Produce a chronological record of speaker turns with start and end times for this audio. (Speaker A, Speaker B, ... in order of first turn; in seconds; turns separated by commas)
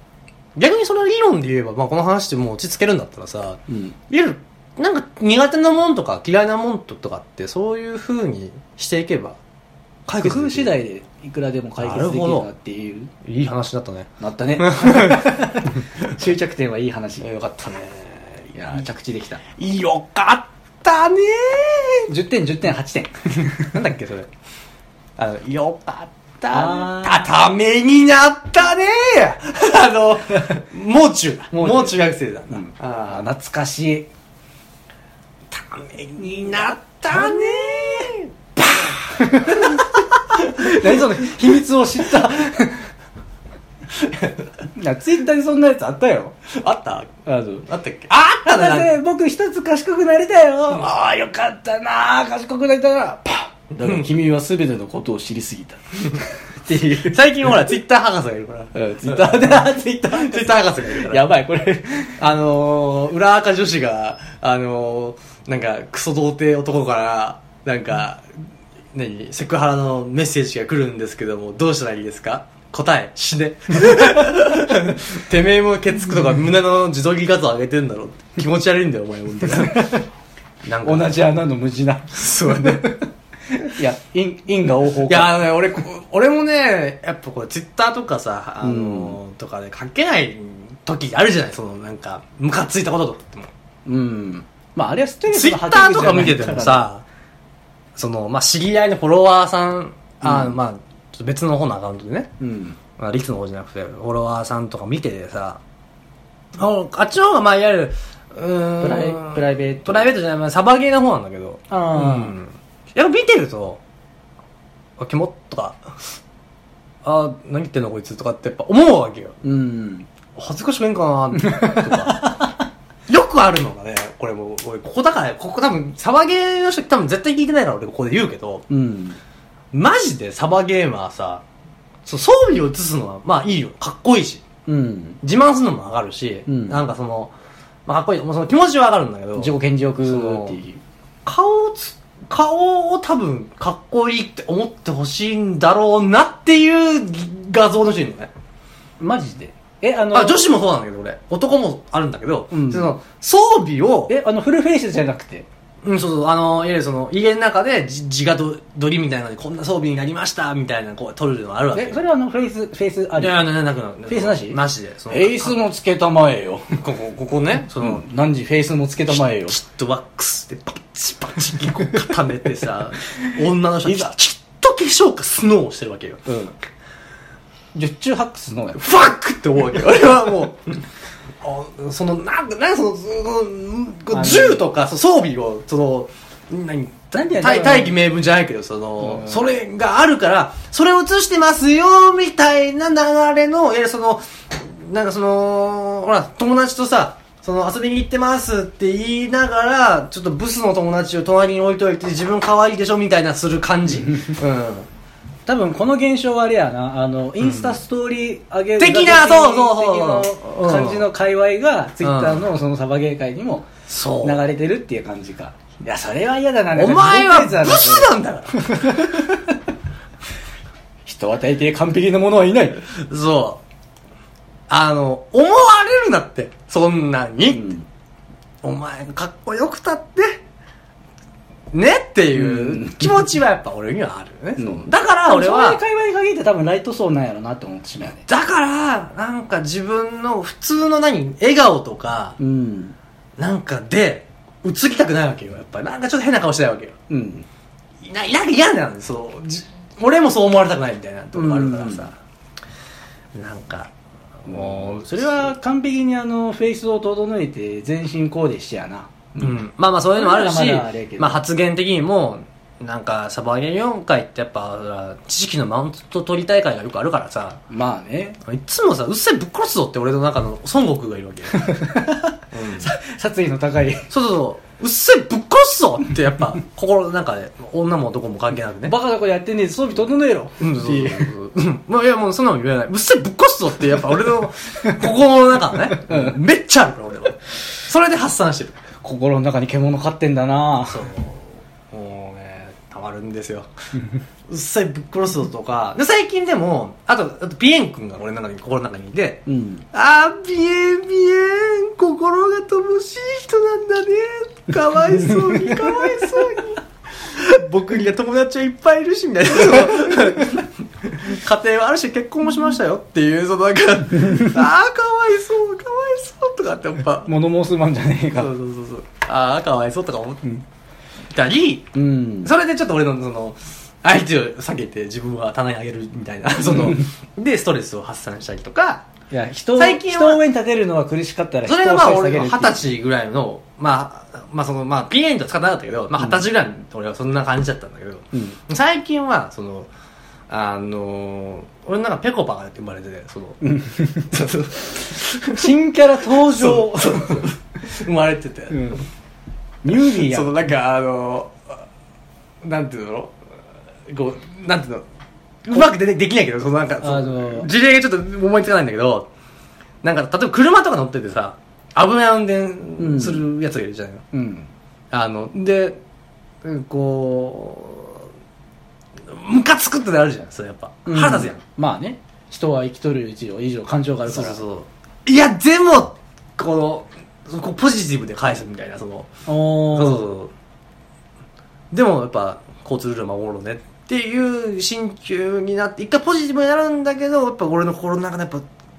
Speaker A: 0.6-9.4, Speaker B: 3.7-4.0, Speaker A: 10.1-10.8, Speaker B: 10.2-13.1, Speaker A: 11.8-12.5, Speaker A: 13.2-15.5, Speaker B: 14.2-17.3, Speaker A: 17.2-18.8, Speaker B: 18.5-19.4, Speaker A: 19.6-22.1, Speaker B: 22.1-23.8, Speaker A: 23.4-24.3, Speaker A: 25.2-33.2, Speaker B: 26.5-27.3, Speaker B: 31.5-34.1, Speaker A: 35.5-41.3, Speaker B: 36.2-38.1, Speaker B: 39.1-42.9, Speaker A: 44.0-44.3, Speaker B: 44.7-46.4, Speaker A: 46.5-49.0, Speaker B: 47.2-47.7, Speaker B: 48.4-57.6, Speaker A: 53.8-54.1, Speaker A: 56.9-61.3, Speaker B: 58.7-62.2, Speaker A: 62.2-68.3, Speaker A: 68.9-80.0, Speaker B: 79.4-80.0, Speaker A: 80.6-81.3, Speaker B: 80.8-83.1, Speaker A: 82.1-83.0, Speaker B: 83.6-85.4, Speaker A: 85.0-93.5, Speaker B: 88.6-89.2, Speaker B: 93.8-96.9, Speaker A: 95.3-97.0, Speaker A: 98.0-102.3, Speaker B: 100.2-100.6, Speaker B: 102.4-102.8, Speaker A: 103.0-105.6, Speaker A: 106.6-113.8, Speaker B: 108.8-110.2, Speaker B: 111.7-112.4, Speaker A: 115.0-115.8, Speaker A: 117.0-119.4, Speaker B: 119.4-120.1, Speaker A: 120.4-122.4, Speaker B: 121.3-122.5, Speaker A: 123.1-128.7, Speaker B: 128.7-129.2, Speaker A: 129.7-131.4, Speaker A: 132.1-134.4, Speaker B: 134.7-135.2, Speaker A: 135.2-137.3, Speaker B: 136.5-136.8, Speaker A: 137.9-140.6, Speaker B: 139.4-140.8, Speaker A: 141.3-148.3, Speaker B: 149.0-150.5, Speaker A: 150.1-154.1, Speaker B: 152.5-152.9, Speaker B: 154.1-155.5, Speaker A: 155.8-162.0, Speaker B: 161.7-163.4, Speaker A: 163.2-165.6, Speaker B: 164.1-166.8, Speaker A: 166.8-168.0, Speaker B: 167.7-169.6, Speaker A: 169.1-176.3, Speaker B: 171.7-172.1, Speaker B: 173.8-174.1, Speaker B: 176.3-176.6, Speaker B: 177.7-178.8, Speaker A: 178.8-180.8, Speaker A: 181.4-204.9, Speaker B: 184.1-184.7, Speaker B: 187.1-188.0, Speaker B: 189.0-189.5, Speaker B: 205.5-213.7, Speaker A: 207.4-207.8, Speaker A: 208.8-211.1, Speaker A: 212.0-212.5, Speaker A: 213.9-214.4, Speaker B: 214.2-219.6, Speaker A: 216.8-219.2, Speaker B: 221.1-222.9, Speaker A: 222.9-223.6, Speaker A: 224.7-227.8, Speaker B: 227.5-227.9, Speaker A: 228.6-230.4, Speaker A: 231.7-235.8, Speaker B: 232.3-233.3, Speaker B: 234.6-238.2, Speaker A: 238.2-242.4, Speaker B: 242.4-243.0, Speaker A: 243.4-247.0, Speaker B: 247.1-247.5, Speaker A: 248.0-252.2, Speaker B: 251.3-252.1, Speaker A: 253.3-253.9, Speaker A: 254.4-255.5, Speaker B: 254.5-259.6, Speaker A: 259.4-267.6, Speaker B: 260.1-261.4, Speaker B: 267.7-268.4, Speaker A: 268.4-271.7, Speaker B: 271.6-274.1, Speaker A: 272.5-272.9, Speaker A: 274.1-279.0, Speaker B: 278.9-281.3, Speaker A: 280.6-288.8, Speaker B: 285.9-286.4, Speaker B: 289.0-291.1, Speaker A: 290.9-293.7, Speaker A: 294.5-317.3, Speaker B: 299.5-299.9, Speaker B: 305.2-306.6, Speaker B: 317.2-318.5, Speaker A: 318.3-320.6, Speaker A: 321.3-329.1, Speaker B: 321.9-322.5, Speaker B: 326.6-327.1, Speaker B: 329.3-332.9, Speaker A: 329.7-330.4, Speaker A: 331.7-339.9, Speaker B: 336.2-336.5, Speaker B: 338.3-338.6, Speaker A: 340.5-345.7, Speaker B: 343.6-344.5, Speaker B: 345.5-347.5, Speaker A: 346.2-349.0, Speaker B: 348.7-349.1, Speaker B: 349.8-350.5, Speaker A: 349.9-351.8, Speaker A: 352.6-353.4, Speaker A: 354.1-355.1, Speaker A: 355.6-359.3, Speaker B: 357.0-357.7, Speaker A: 360.0-364.2, Speaker B: 363.0-363.4, Speaker B: 364.3-364.7, Speaker A: 365.1-366.0, Speaker A: 366.6-368.3, Speaker A: 369.3-371.6, Speaker B: 371.1-374.6, Speaker A: 374.3-379.3, Speaker B: 379.5-380.3, Speaker A: 379.8-380.5, Speaker A: 381.9-388.7